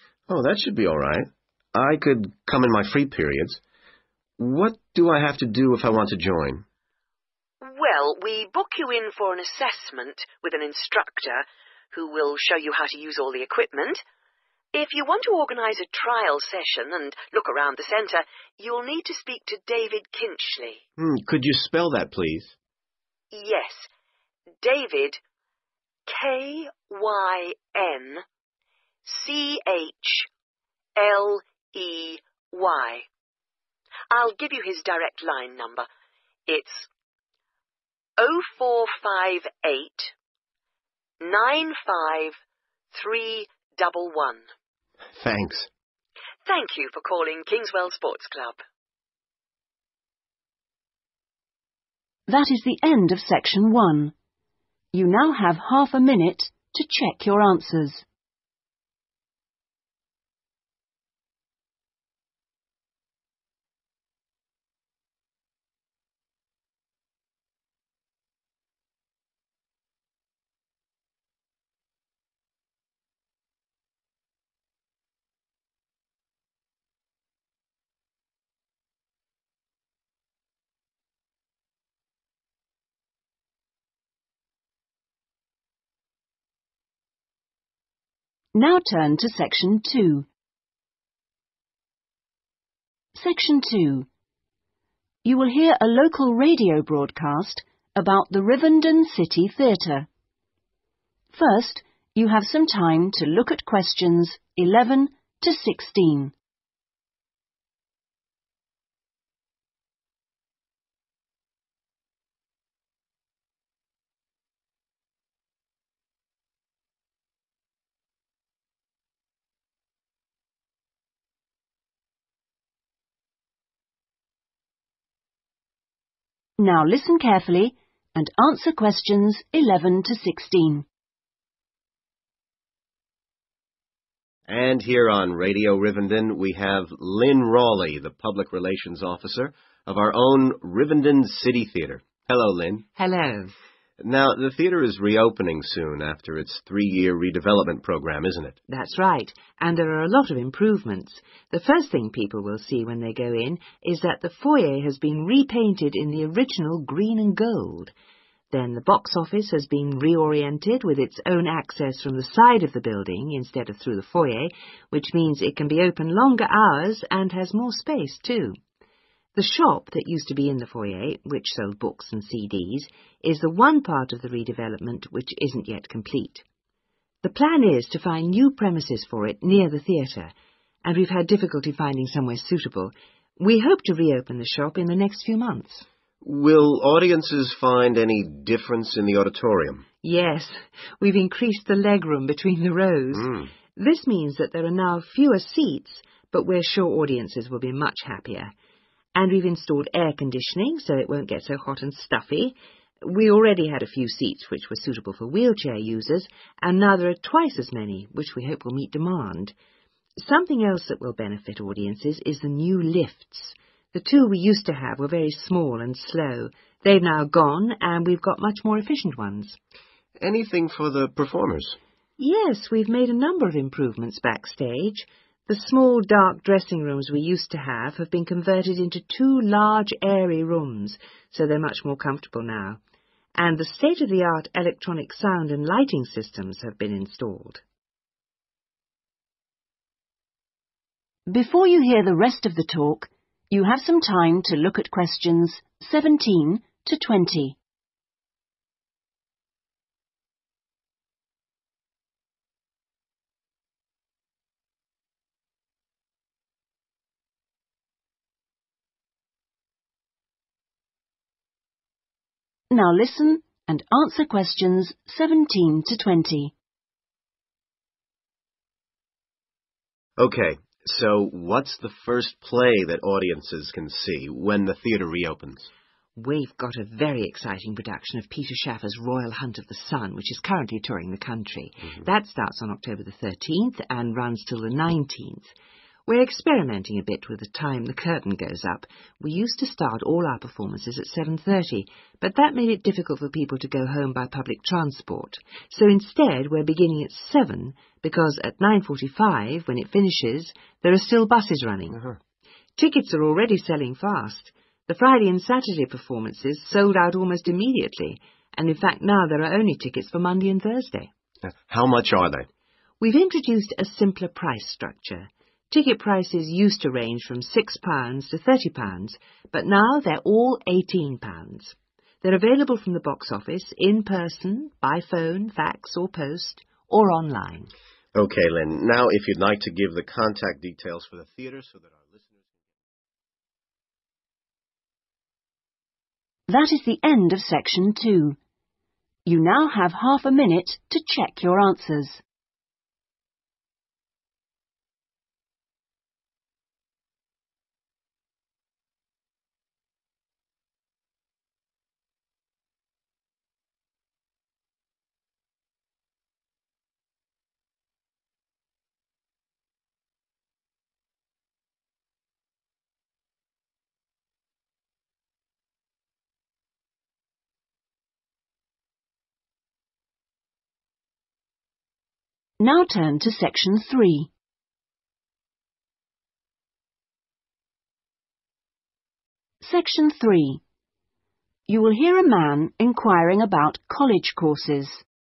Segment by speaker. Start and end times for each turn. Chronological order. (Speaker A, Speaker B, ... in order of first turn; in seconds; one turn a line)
Speaker A: 0.3-3.6
Speaker A: 4.4-6.6
Speaker B: 7.6-14.0
Speaker B: 14.7-20.8
Speaker A: 21.0-22.5
Speaker B: 23.3-23.9
Speaker B: 24.6-25.2
Speaker B: 26.1-28.2
Speaker B: 29.0-30.3
Speaker B: 30.9-33.0
Speaker B: 34.1-35.9
Speaker B: 36.5-36.9
Speaker B: 38.2-40.1
Speaker B: 41.2-42.4
Speaker B: 42.9-44.5
Speaker A: 45.2-45.7
Speaker B: 46.5-48.6
Speaker C: 52.3-54.1
Speaker C: 54.9-58.0
Speaker C: 88.5-90.3
Speaker C: 93.1-94.1
Speaker C: 95.2-100.1
Speaker C: 101.3-106.3
Speaker C: 126.6-130.8
Speaker A: 134.5-142.9
Speaker D: 142.9-143.5
Speaker A: 144.0-148.6
Speaker D: 148.7-157.9
Speaker D: 158.5-168.6
Speaker D: 169.3-176.4
Speaker D: 177.2-180.3
Speaker D: 180.8-185.8
Speaker A: 186.2-189.8
Speaker D: 190.0-198.5
Speaker A: 193.1-193.5
Speaker D: 199.1-209.5
Speaker D: 210.2-219.6
Speaker A: 220.2-221.8
Speaker D: 222.2-232.8
Speaker D: 233.3-237.6
Speaker C: 241.3-247.6
Speaker C: 262.7-266.5
Speaker A: 270.2-275.7
Speaker D: 276.1-285.5
Speaker D: 286.1-302.1
Speaker D: 302.8-311.1
Speaker A: 311.4-312.5
Speaker D: 313.0-327.7
Speaker A: 328.1-332.4
Speaker C: 336.5-338.4
Speaker C: 339.2-342.2
Speaker C: 372.6-374.3
Speaker C: 379.6-380.6
Speaker C: 381.7-385.0